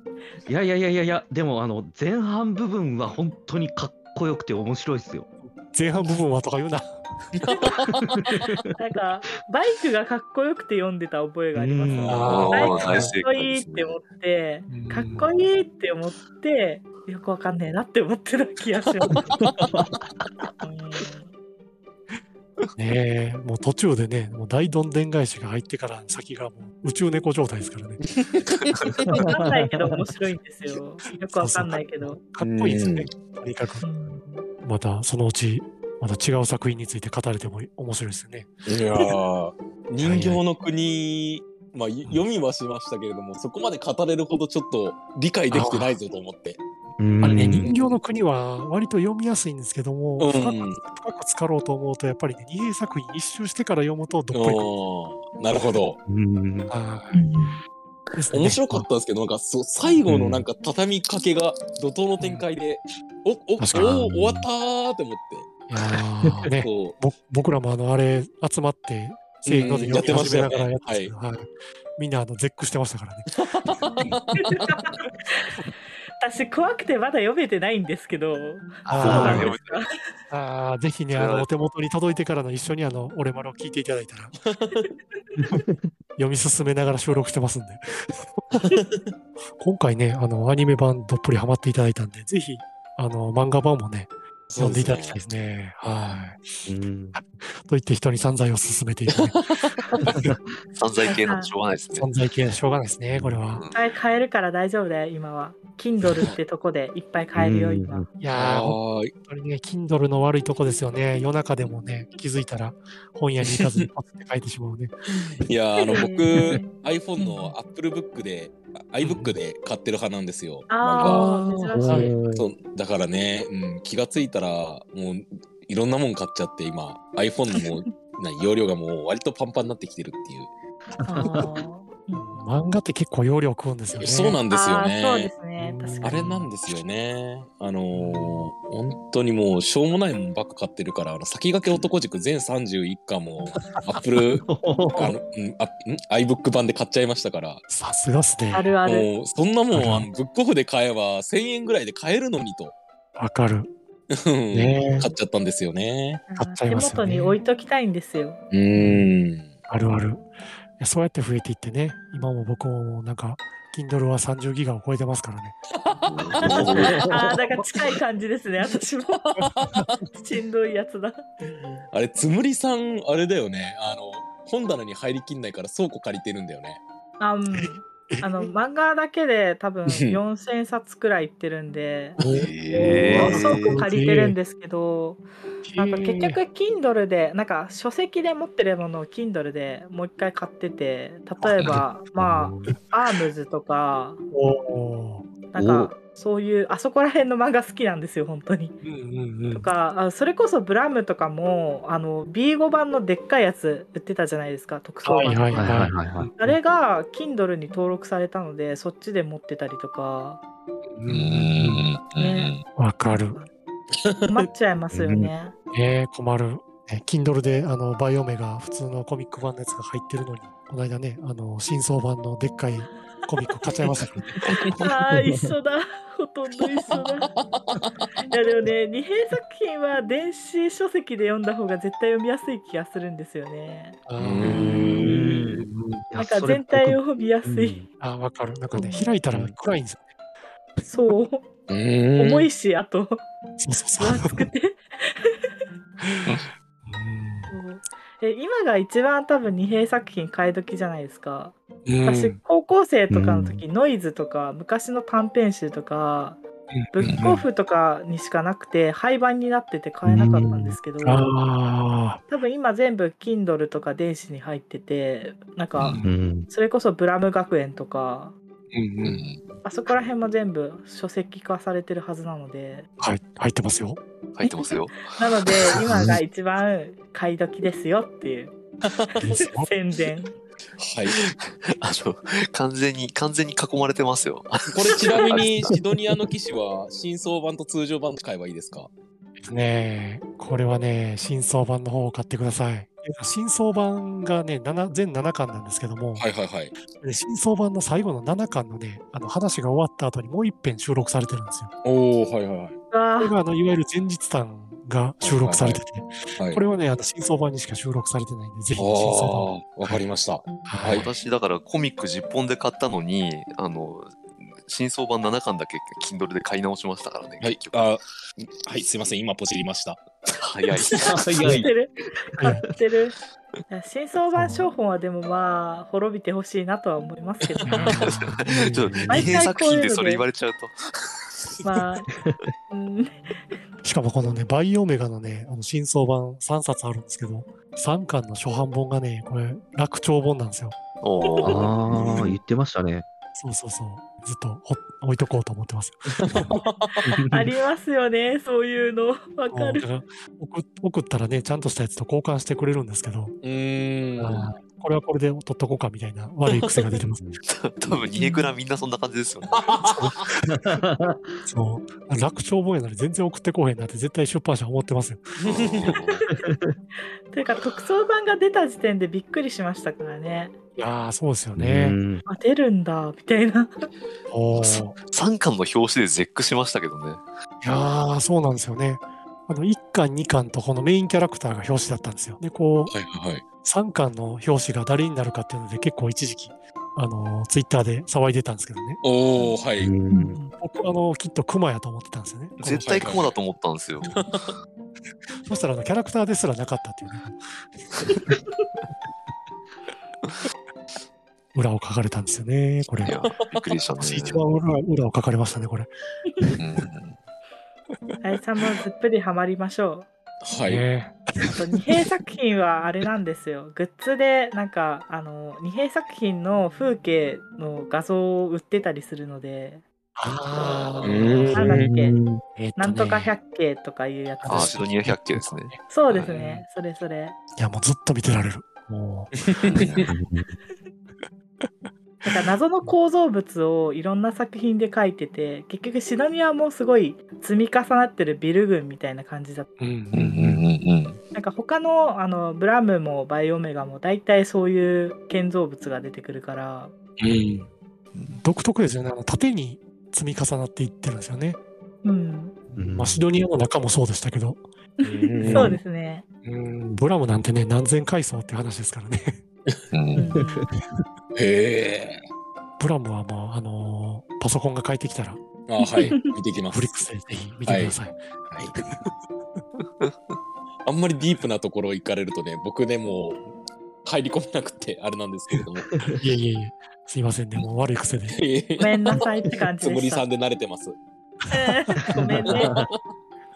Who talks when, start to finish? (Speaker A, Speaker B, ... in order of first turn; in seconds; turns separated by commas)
Speaker A: 0.5-5.3, Speaker B: 5.4-7.0, Speaker C: 7.3-8.5, Speaker A: 8.0-8.7, Speaker D: 8.8-19.3, Speaker A: 11.5-12.5, Speaker C: 12.0-12.8, Speaker B: 12.1-13.1, Speaker E: 12.2-14.0, Speaker B: 14.7-15.3, Speaker A: 19.4-20.0, Speaker D: 20.6-21.3, Speaker B: 22.8-28.0, Speaker C: 28.1-29.2, Speaker A: 28.8-30.0, Speaker D: 29.2-32.2, Speaker B: 31.3-33.8, Speaker C: 32.4-33.1, Speaker D: 33.8-34.4, Speaker B: 34.6-38.5, Speaker C: 38.7-46.6, Speaker B: 40.0-40.4, Speaker B: 45.5-46.0, Speaker A: 47.0-47.7, Speaker C: 47.2-48.0, Speaker B: 47.2-54.6, Speaker C: 50.2-50.8, Speaker C: 54.3-56.0, Speaker A: 56.0-56.7, Speaker B: 56.7-57.2, Speaker D: 57.1-57.6, Speaker B: 58.1-58.9, Speaker C: 58.3-65.5, Speaker A: 60.0-60.4, Speaker B: 62.2-62.4, Speaker B: 63.6-64.0, Speaker A: 63.7-64.5, Speaker B: 65.7-73.4, Speaker C: 66.5-67.0, Speaker C: 69.4-71.1, Speaker C: 73.3-74.7, Speaker D: 74.3-75.6, Speaker D: 76.2-80.1, Speaker E: 78.8-79.8, Speaker B: 78.9-79.5, Speaker A: 79.0-79.5, Speaker B: 80.3-84.3, Speaker E: 81.1-81.5, Speaker C: 84.4-84.8, Speaker A: 85.4-85.9, Speaker B: 86.2-88.4, Speaker C: 88.5-89.0, Speaker B: 89.6-100.3, Speaker C: 94.5-95.2, Speaker A: 96.7-97.2, Speaker C: 99.2-100.2, Speaker E: 100.8-102.1, Speaker D: 101.1-101.5, Speaker B: 101.9-103.7, Speaker E: 103.5-103.8, Speaker D: 103.7-108.0, Speaker A: 107.3-108.2, Speaker B: 108.2-114.9, Speaker C: 108.3-109.1, Speaker C: 113.5-113.9, Speaker C: 115.4-121.3, Speaker D: 115.8-117.5, Speaker B: 119.0-119.3, Speaker D: 120.7-122.1, Speaker B: 121.0-122.2, Speaker A: 121.8-122.5, Speaker C: 122.3-130.5, Speaker D: 131.0-132.4, Speaker A: 131.1-131.5, Speaker B: 131.2-131.5, Speaker B: 132.1-134.4, Speaker C: 133.9-135.3, Speaker D: 134.5-136.2, Speaker B: 135.6-136.5, Speaker C: 136.0-147.6, Speaker B: 137.9-138.5, Speaker A: 144.4-145.1, Speaker B: 147.7-148.8, Speaker D: 148.5-149.1, Speaker C: 148.8-152.8, Speaker B: 149.7-150.1, Speaker B: 153.2-153.7, Speaker C: 154.1-156.2, Speaker B: 154.5-155.1, Speaker D: 156.3-158.4, Speaker B: 156.4-157.4, Speaker C: 158.5-159.5, Speaker B: 158.8-159.0, Speaker B: 159.7-160.2, Speaker B: 160.8-165.6, Speaker C: 165.8-167.6, Speaker E: 166.1-167.0, Speaker B: 166.5-166.8, Speaker D: 166.7-169.2, Speaker C: 169.1-169.9, Speaker B: 169.4-170.0, Speaker D: 170.1-171.2, Speaker C: 171.4-176.8, Speaker D: 177.2-182.2, Speaker B: 177.6-178.5, Speaker C: 179.9-180.2, Speaker C: 182.2-182.5, Speaker E: 182.3-183.8, Speaker D: 182.7-194.2, Speaker A: 182.8-183.5, Speaker B: 183.2-184.3, Speaker B: 185.6-186.4, Speaker E: 191.5-191.8, Speaker A: 192.2-192.8, Speaker B: 194.3-195.3, Speaker D: 195.5-198.8, Speaker A: 195.6-195.9, Speaker B: 198.8-199.7, Speaker D: 199.5-210.4, Speaker B: 205.0-206.3, Speaker A: 205.5-206.5, Speaker B: 210.9-211.8, Speaker E: 211.1-212.6, Speaker D: 212.2-212.6, Speaker B: 212.8-213.4, Speaker D: 213.1-213.5, Speaker C: 213.9-214.5, Speaker D: 214.3-215.5, Speaker A: 214.9-215.3, Speaker B: 215.7-224.4, Speaker C: 224.4-224.8, Speaker D: 224.4-227.3, Speaker A: 225.0-225.5, Speaker C: 227.5-227.9, Speaker D: 228.2-234.0, Speaker B: 234.1-236.0, Speaker C: 234.2-235.3, Speaker A: 234.4-237.9, Speaker D: 236.2-237.8, Speaker B: 238.0-240.0, Speaker D: 238.7-239.1, Speaker D: 240.8-241.4, Speaker C: 241.7-242.5, Speaker D: 242.2-243.2, Speaker B: 243.6-244.5, Speaker D: 243.9-245.5, Speaker B: 246.0-247.5, Speaker D: 247.5-256.4, Speaker B: 251.8-252.4, Speaker A: 253.1-253.6, Speaker B: 256.7-257.3, Speaker D: 256.9-261.3, Speaker A: 260.1-260.8, Speaker B: 261.0-262.2, Speaker D: 262.3-266.0, Speaker B: 265.8-266.1, Speaker A: 266.0-266.5, Speaker D: 266.5-268.3, Speaker B: 268.7-269.2, Speaker C: 269.0-269.3, Speaker D: 269.6-272.9, Speaker B: 273.0-274.0, Speaker E: 274.3-275.8, Speaker D: 274.4-278.5, Speaker A: 275.8-276.2, Speaker C: 278.9-279.3, Speaker B: 279.2-279.7, Speaker D: 279.2-280.3, Speaker C: 280.8-281.2, Speaker E: 281.1-285.7, Speaker C: 284.6-288.9, Speaker B: 289.4-296.3, Speaker C: 296.2-296.8, Speaker B: 296.8-301.7, Speaker C: 301.8-302.8, Speaker D: 302.9-303.3, Speaker B: 303.2-310.0, Speaker C: 305.2-305.8, Speaker C: 308.8-311.1, Speaker B: 310.6-311.1, Speaker E: 310.8-317.9, Speaker C: 317.4-320.1, Speaker E: 320.4-321.0, Speaker A: 320.9-321.7, Speaker D: 321.0-323.1, Speaker A: 322.4-322.7, Speaker D: 323.7-328.1, Speaker B: 324.3-324.7, Speaker B: 327.6-329.3, Speaker E: 328.0-330.7, Speaker A: 328.9-329.3, Speaker D: 329.1-330.2, Speaker D: 331.6-332.1, Speaker A: 332.1-332.5, Speaker D: 332.7-333.4, Speaker B: 333.8-340.8, Speaker E: 341.0-341.7, Speaker A: 341.4-343.0, Speaker C: 341.6-342.4, Speaker B: 343.3-347.2, Speaker C: 346.2-347.2, Speaker A: 347.2-347.5, Speaker D: 347.3-349.8, Speaker B: 349.5-353.4, Speaker C: 353.4-354.5, Speaker B: 354.2-357.4, Speaker E: 357.5-359.9, Speaker D: 358.2-358.5, Speaker C: 359.5-360.3, Speaker B: 359.9-360.8, Speaker A: 360.4-361.3, Speaker B: 361.4-365.3, Speaker C: 365.4-366.2, Speaker E: 365.4-366.2, Speaker A: 366.3-366.8, Speaker D: 367.3-370.5, Speaker B: 370.8-371.9, Speaker A: 371.5-372.2, Speaker D: 372.2-373.9, Speaker B: 374.3-375.0, Speaker E: 374.5-377.2, Speaker B: 377.6-382.9, Speaker C: 382.9-383.4, Speaker B: 383.6-389.0, Speaker C: 389.0-389.9, Speaker A: 389.8-390.4, Speaker D: 390.1-390.5, Speaker B: 390.5-393.2, Speaker E: 392.6-394.1, Speaker C: 392.8-393.3, Speaker C: 394.0-394.5, Speaker B: 395.4-397.4, Speaker B: 398.1-398.4, Speaker B: 401.5-403.1, Speaker E: 403.0-404.4, Speaker B: 404.0-405.9, Speaker E: 406.6-407.2, Speaker D: 408.2-410.1, Speaker C: 410.4-410.8, Speaker B: 410.6-411.6, Speaker D: 411.5-419.8, Speaker B: 420.1-421.8, Speaker D: 420.9-422.2, Speaker C: 421.0-421.9, Speaker A: 421.7-422.4, Speaker B: 422.6-423.3, Speaker D: 422.8-424.9, Speaker B: 424.4-426.6, Speaker E: 424.5-426.2, Speaker D: 425.9-427.4, Speaker B: 427.6-429.4, Speaker C: 429.4-430.0, Speaker E: 429.7-430.1, Speaker A: 430.1-430.6, Speaker B: 431.6-432.4, Speaker D: 432.2-439.7, Speaker B: 439.8-440.6, Speaker E: 440.1-441.2, Speaker D: 441.3-446.9, Speaker B: 447.2-447.7, Speaker B: 448.4-451.6, Speaker D: 452.0-452.6, Speaker B: 452.7-455.8, Speaker A: 452.8-453.2, Speaker D: 455.0-456.2, Speaker C: 455.3-455.8, Speaker B: 456.4-459.4, Speaker E: 459.9-460.3, Speaker D: 460.1-460.6, Speaker A: 460.3-460.6, Speaker C: 461.3-462.2, Speaker B: 462.8-465.4, Speaker C: 465.7-467.1, Speaker D: 465.8-466.3, Speaker B: 466.7-468.2, Speaker C: 467.7-467.9, Speaker C: 468.5-468.8, Speaker B: 468.8-469.1, Speaker C: 470.8-473.4, Speaker C: 474.0-476.1, Speaker A: 475.9-476.2, Speaker B: 476.1-478.4, Speaker C: 478.3-480.9, Speaker D: 478.8-480.2, Speaker D: 481.5-482.8, Speaker B: 481.6-482.1, Speaker A: 482.5-482.8, Speaker C: 482.6-482.9